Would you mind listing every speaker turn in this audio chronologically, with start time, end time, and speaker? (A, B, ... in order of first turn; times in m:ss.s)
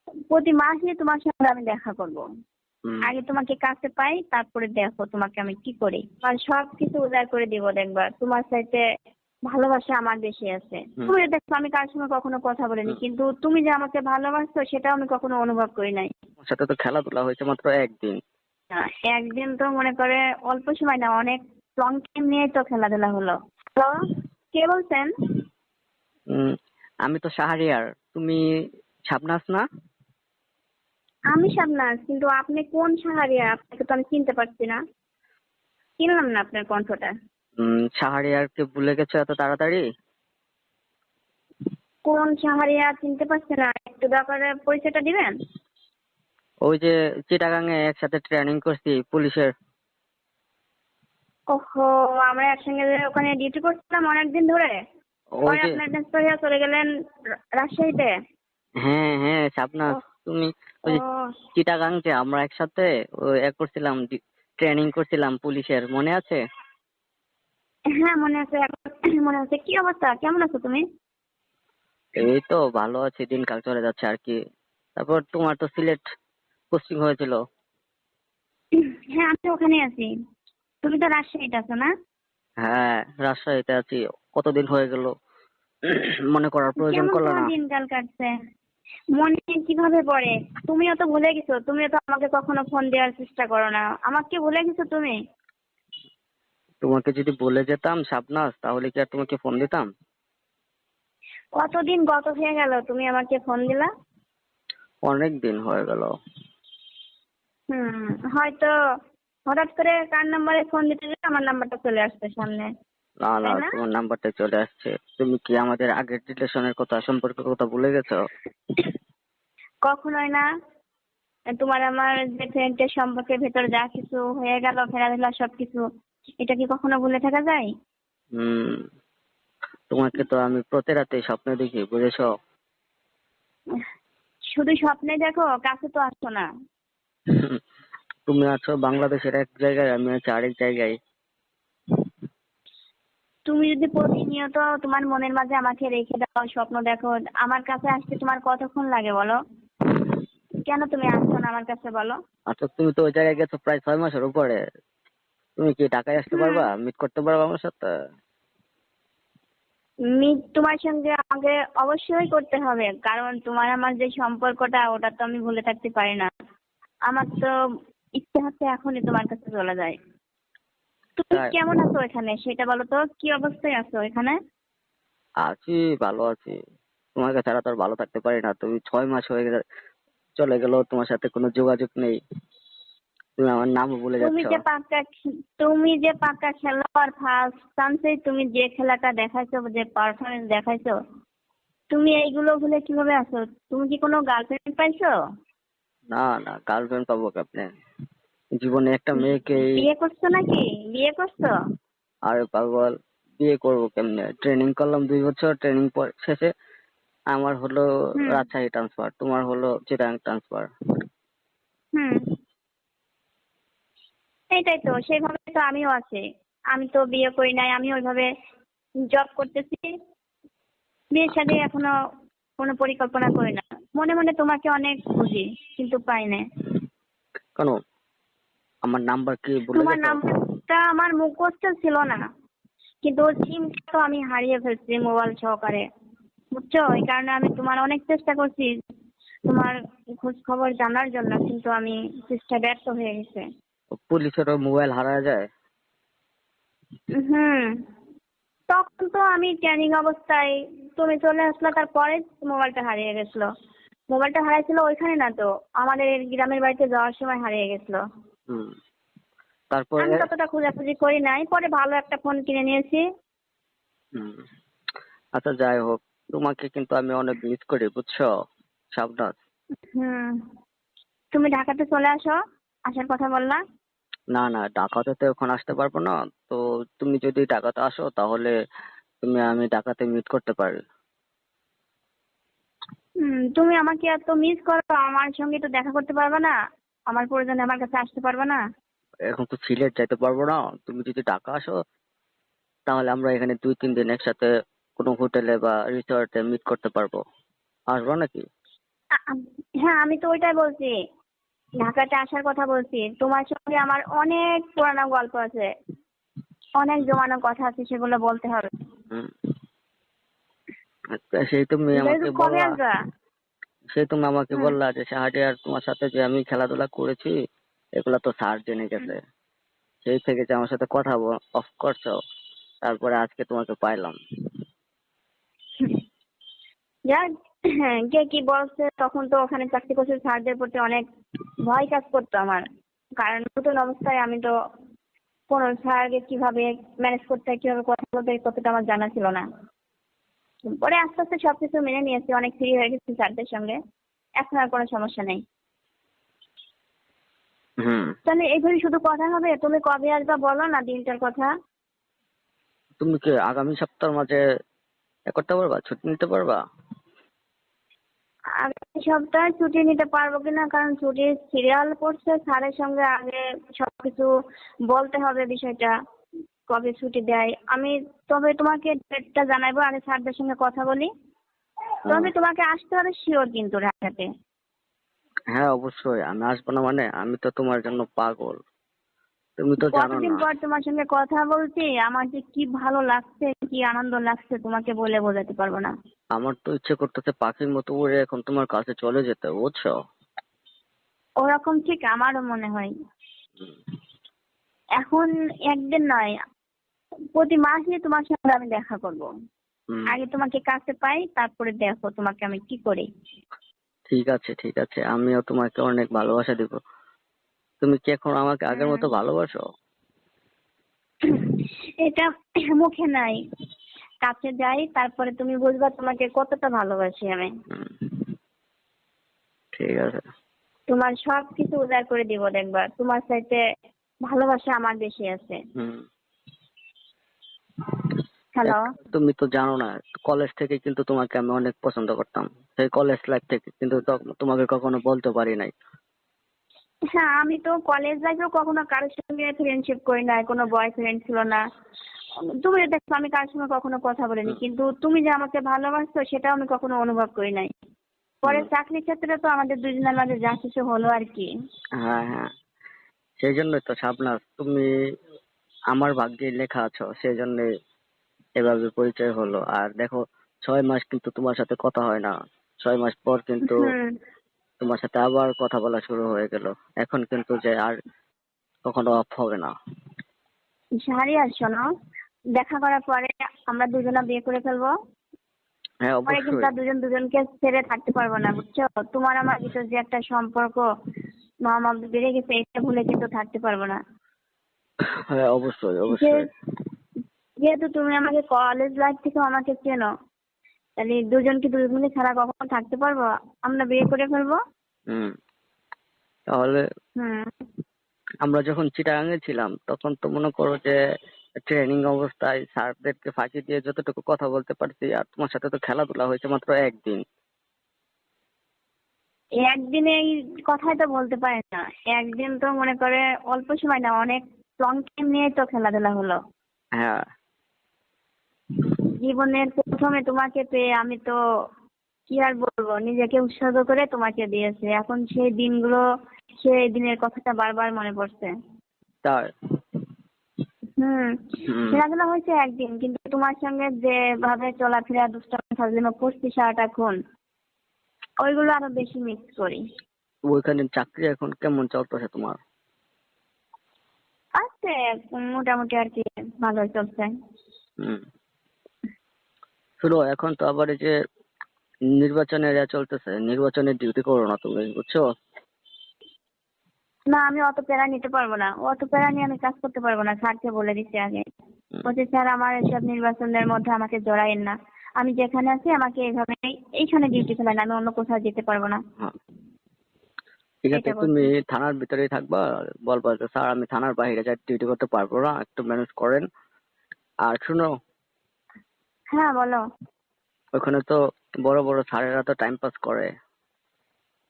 0:00.3-0:02.2 A
0:03.0-0:08.8 A
0:09.5-0:16.1 A
0:16.4-0:18.2 B
0:18.8-0:24.0 A
0:24.6-0:25.1 A
0:27.0-0:28.4 B
0:29.1-0:29.6 B
0:31.3-0:34.8 A
0:36.0-0:37.1 A
0:37.6-0:39.8 B
0:42.1-0:45.3 A
0:46.6-0:49.5 B
0:51.5-0:54.8 A
0:55.4-0:55.8 B
0:55.5-0:56.9 A
0:57.6-0:58.1 A
0:58.8-1:01.0 B
1:00.9-1:01.2 A
1:01.6-1:06.4 B
1:08.0-1:10.8 A
1:12.2-1:14.4 B
1:15.0-1:16.0 B
1:16.7-1:17.4 B
1:19.1-1:20.1 A
1:20.8-1:21.9 A
1:22.6-1:25.1 B
1:25.9-1:27.5 B
1:26.8-1:28.3 A
1:29.2-1:35.2 A
1:36.8-1:39.9 B
1:41.6-1:43.9 A
1:45.0-1:46.1 B
1:47.7-1:48.7 A
1:49.5-1:52.7 A
1:53.2-1:58.2 B
1:53.4-1:53.7 A
1:59.8-2:00.4 A
2:01.6-2:05.8 A
2:06.4-2:07.7 A
2:08.4-2:08.8 B
2:09.9-2:12.3 B
2:14.5-2:16.5 A
2:17.3-2:17.6 B
2:18.3-2:21.0 B
2:23.5-2:29.4 A
2:30.6-2:32.2 A
2:32.5-2:34.6 B
2:35.6-2:37.9 B
2:36.3-2:36.7 A
2:40.1-2:46.3 A
2:47.1-2:47.5 A
2:48.2-2:50.0 A
2:51.2-2:54.4 A
2:55.4-2:56.6 B
2:57.2-2:59.6 B
3:00.4-3:02.2 B
3:03.4-3:04.6 B
3:04.2-3:05.0 A
3:05.6-3:10.9 A
3:11.9-3:15.1 A
3:16.1-3:17.7 B
3:18.6-3:19.8 B
3:19.8-3:21.5 A
3:22.3-3:26.5 B
3:27.3-3:30.7 B
3:34.5-3:38.3 A
3:39.1-3:39.9 A
3:41.1-3:41.9 A
3:42.6-3:46.4 A
3:48.8-3:50.2 B
3:49.7-3:52.2 A
3:53.0-3:55.8 A
3:56.5-3:58.7 A
3:59.5-4:03.4 A
4:04.1-4:05.4 B
4:07.2-4:07.7 A
4:08.7-4:13.5 A
4:14.1-4:18.0 A
4:19.7-4:20.3 B
4:20.0-4:23.0 A
4:24.2-4:24.4 B
4:25.4-4:28.3 B
4:28.9-4:29.4 B
4:30.0-4:30.4 A
4:31.3-4:32.4 A
4:32.9-4:33.6 A
4:34.3-4:38.5 B
4:39.2-4:40.8 B
4:43.2-4:46.5 A
4:47.1-4:48.6 A
4:49.3-4:51.8 B
4:52.9-4:57.2 B
4:57.9-4:58.4 B
4:59.3-5:00.9 A
5:01.8-5:05.7 A
5:06.8-5:08.7 A
5:11.1-5:12.8 B
5:12.0-5:12.9 A
5:13.9-5:17.3 B
5:18.0-5:19.2 B
5:20.0-5:22.2 B
5:22.8-5:24.2 B
5:27.1-5:31.1 A
5:31.6-5:32.6 A
5:33.2-5:34.5 A
5:35.5-5:39.4 A
5:40.7-5:43.8 A
5:44.4-5:45.4 A
5:47.8-5:48.1 B
5:48.3-5:51.5 A
5:53.0-5:54.4 B
5:55.3-5:56.6 B
5:58.6-6:04.3 A
6:04.9-6:05.9 A
6:06.7-6:11.1 A
6:12.1-6:12.3 B
6:12.1-6:14.3 A
6:15.5-6:18.6 B
6:19.6-6:20.4 B
6:19.8-6:25.9 A
6:26.4-6:29.9 B
6:31.4-6:32.9 A
6:35.0-6:36.3 A
6:37.4-6:39.3 A
6:40.1-6:43.1 A
6:44.1-6:46.8 B
6:47.8-6:49.6 B
6:48.7-6:49.1 A
6:51.3-6:53.4 A
6:54.2-6:57.5 A
6:57.7-6:58.2 B
6:59.7-7:00.2 B
7:00.9-7:03.6 A
7:04.3-7:05.6 A
7:05.8-7:06.0 B
7:08.6-7:08.9 A
7:08.6-7:15.7 B
7:17.2-7:21.6 A
7:22.6-7:27.7 A
7:28.4-7:31.5 A
7:32.0-7:32.5 B
7:33.4-7:34.9 B
7:35.9-7:37.7 B
7:38.6-7:43.9 B
7:43.6-7:44.2 A
7:44.8-7:48.0 B
7:48.9-7:49.7 B
7:51.0-7:51.8 A
7:52.6-7:54.9 A
7:56.0-7:56.7 B
7:56.3-8:00.8 A
8:01.7-8:04.0 A
8:05.3-8:06.4 B
8:06.1-8:06.4 A
8:07.6-8:10.1 A
8:11.0-8:14.6 A
8:16.5-8:16.8 B
8:17.2-8:17.5 A
8:18.4-8:21.0 B
8:21.6-8:27.2 B
8:29.6-8:36.4 A
8:39.2-8:41.4 A
8:42.3-8:46.0 A
8:46.6-8:48.5 A
8:51.0-8:51.3 A
8:51.7-8:52.0 B
8:51.9-8:57.2 A
8:58.4-8:59.8 A
9:00.5-9:02.6 B
9:04.6-9:07.3 A
9:10.0-9:11.1 B
9:12.2-9:15.2 B
9:17.3-9:21.4 A
9:22.1-9:29.0 A
9:30.8-9:36.4 B
9:30.9-9:31.5 A
9:37.4-9:37.9 B
9:39.3-9:39.8 A
9:40.8-9:43.3 B